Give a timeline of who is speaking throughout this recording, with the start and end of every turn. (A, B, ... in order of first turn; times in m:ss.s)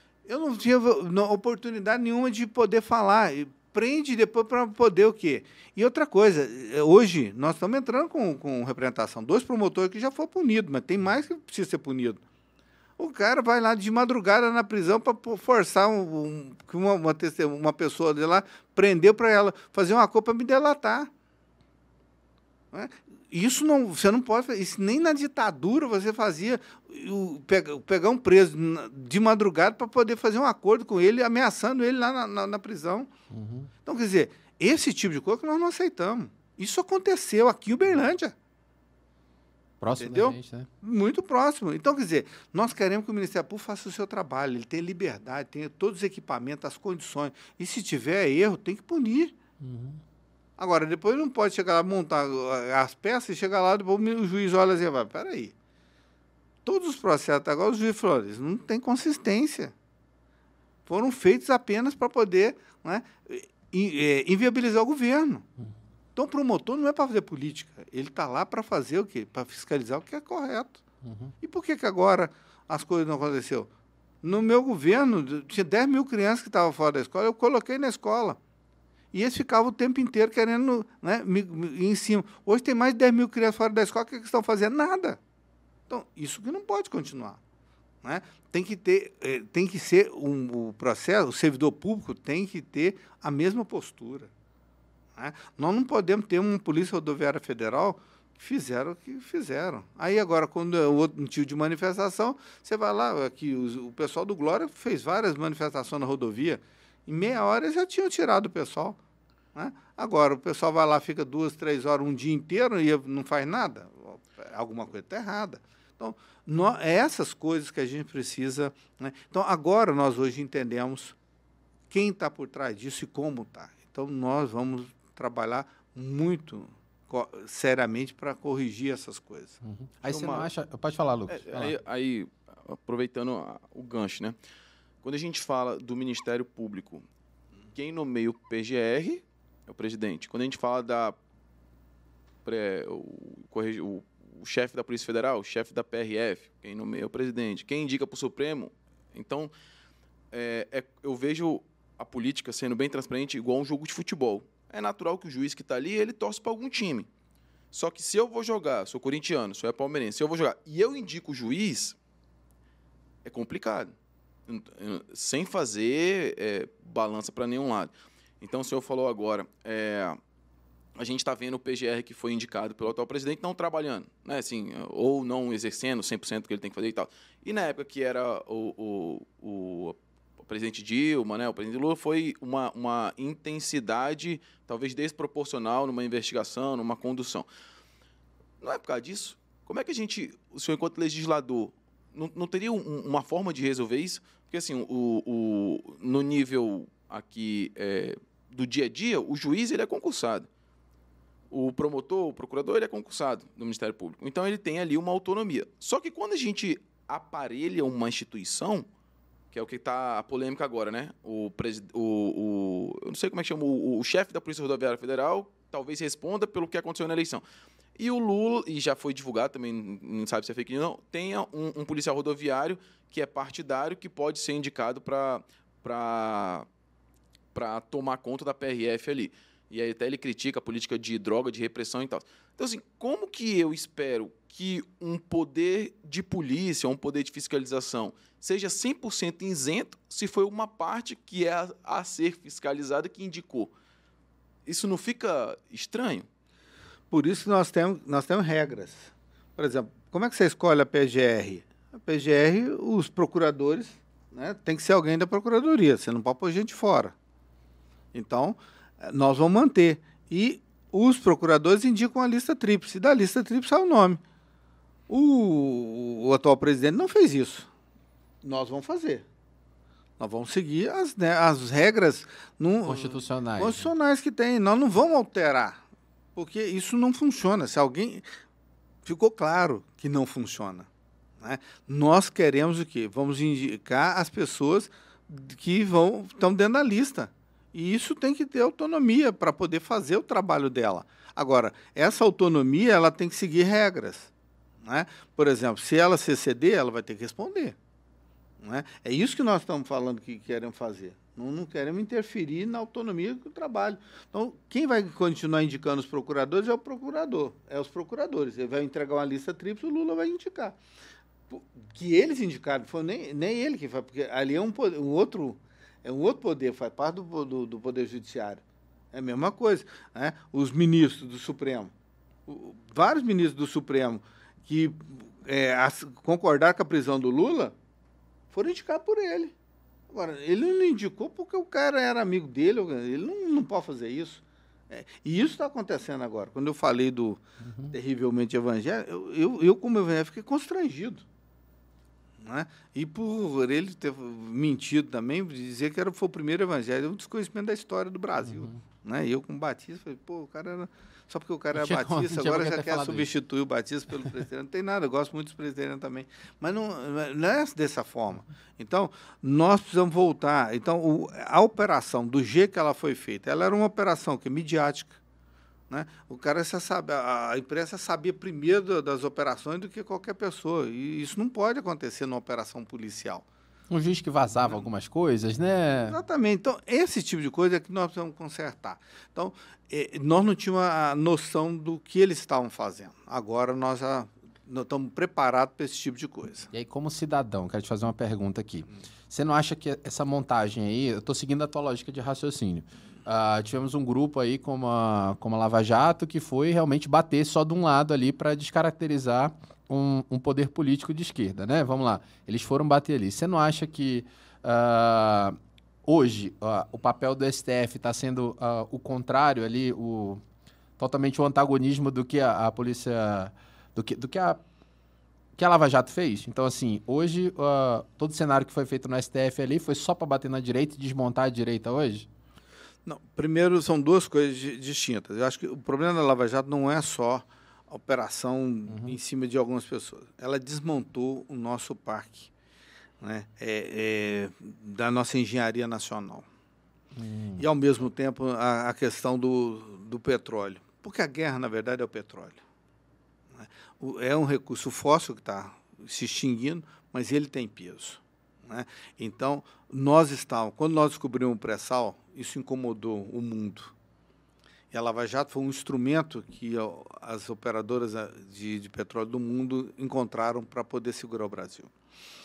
0:00.3-0:12.2 A
0:13.0-0:21.1 A
0:22.7-0:33.1 A
0:33.3-0:33.7 B
0:33.8-0:38.4 A
0:39.8-0:40.7 B
0:40.0-0:49.4 A
0:49.6-0:50.0 B
0:50.6-0:55.5 A
0:56.6-0:59.7 A
1:00.9-1:05.5 A
1:06.2-1:10.8 A
1:11.0-1:11.3 B
1:11.4-1:13.7 A
1:14.2-1:18.4 A
1:19.1-1:25.2 A
1:25.9-1:27.4 A
1:28.0-1:34.3 A
1:35.2-1:49.0 A
1:49.6-2:01.2 A
2:01.9-2:10.5 A
2:09.6-2:11.8 B
2:11.3-2:14.4 C
2:15.0-2:17.0 C
2:17.7-2:21.2 C
2:22.4-2:29.5 C
2:30.3-2:37.1 C
2:37.7-2:42.0 C
2:43.2-2:43.9 C
2:44.5-2:50.2 C
2:51.0-3:07.5 C
3:08.6-3:20.5 C
3:21.5-3:28.9 C
3:29.5-3:37.4 C
3:38.0-3:46.7 C
3:47.5-4:03.7 C
4:04.7-4:06.3 C
4:07.1-4:17.1 A
4:18.1-4:24.2 A
4:25.1-4:27.7 A
4:28.4-4:29.2 A
4:30.2-4:35.8 A
4:32.9-4:33.9 B
4:36.4-4:38.2 A
4:39.0-4:40.9 A
4:41.4-4:54.3 A
4:54.8-4:57.8 A
4:58.6-5:10.8 A
5:11.5-5:21.9 A
5:22.5-5:27.8 A
5:28.5-5:29.5 A
5:30.1-5:37.4 A
5:37.6-5:38.0 B
5:37.9-5:41.2 A
5:42.4-6:05.2 A
5:48.4-5:48.8 B
5:51.7-5:53.3 B
6:05.9-6:13.5 A
6:13.9-6:16.2 B
6:16.1-6:26.7 A
6:26.7-6:50.4 B
6:51.0-6:54.6 B
6:55.6-7:02.3 B
7:03.0-7:12.5 A
7:08.9-7:09.2 B
7:13.2-7:16.5 A
7:17.2-7:17.6 B
7:17.6-7:22.6 A
7:23.6-7:33.9 A
7:34.9-7:41.9 A